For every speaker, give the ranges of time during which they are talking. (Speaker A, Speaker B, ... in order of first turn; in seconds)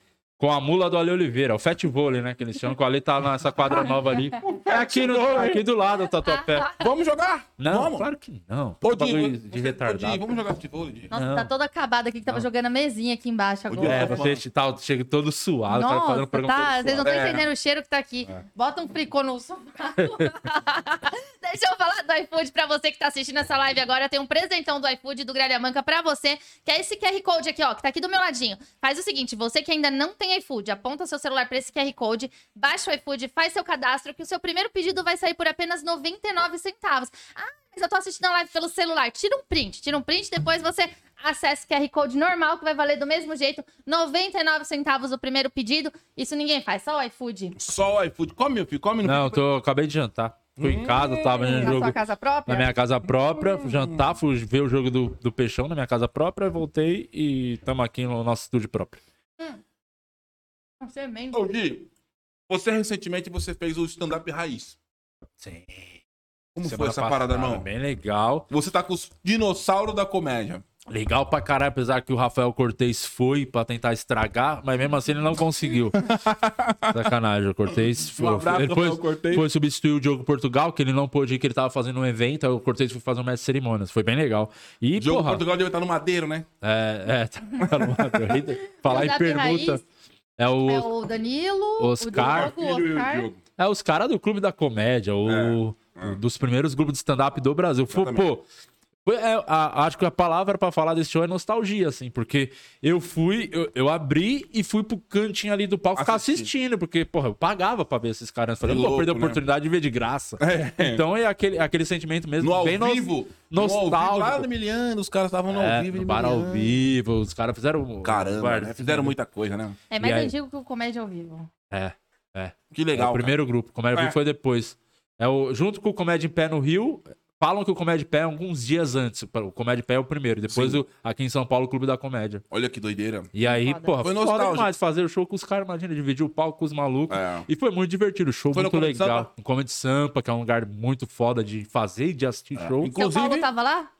Speaker A: 0.4-6.7, 7.6-10.3, 11.1-11.5, 13.8-17.3, 20.0-20.3, 49.0-59.0, 65.4-66.0, 66.6-68.5, 70.9-76.1, 76.9-85.4, 86.6-89.8, 90.4-90.9, 91.8-92.5, 93.6-98.4, 99.0-114.5, 115.5-119.1, 120.0-120.3, 121.7-132.4, 133.3-142.9
Speaker B: 4.4-5.6, 6.7-8.1, 8.8-11.1, 13.7-14.4, 17.0-17.4, 47.5-49.4, 50.6-51.9, 53.4-54.1, 61.3-61.9, 62.5-64.8, 66.5-67.7, 68.5-70.6, 75.9-77.1, 77.7-79.5, 85.0-86.5, 87.7-88.2, 92.1-93.4, 95.2-96.2, 97.9-98.3, 106.0-106.5, 108.6-109.4, 110.4-111.0, 112.4-116.8, 118.0-119.8, 122.7-123.3, 130.5-130.8, 132.5-133.3, 134.0-134.7, 137.1-137.5, 138.5-139.3, 142.6-143.5
Speaker C: 6.3-6.7, 11.1-14.2, 15.7-47.5, 51.0-52.7, 60.8-61.4, 88.8-89.8, 90.7-93.3, 119.9-121.5, 133.4-134.0, 142.9-143.9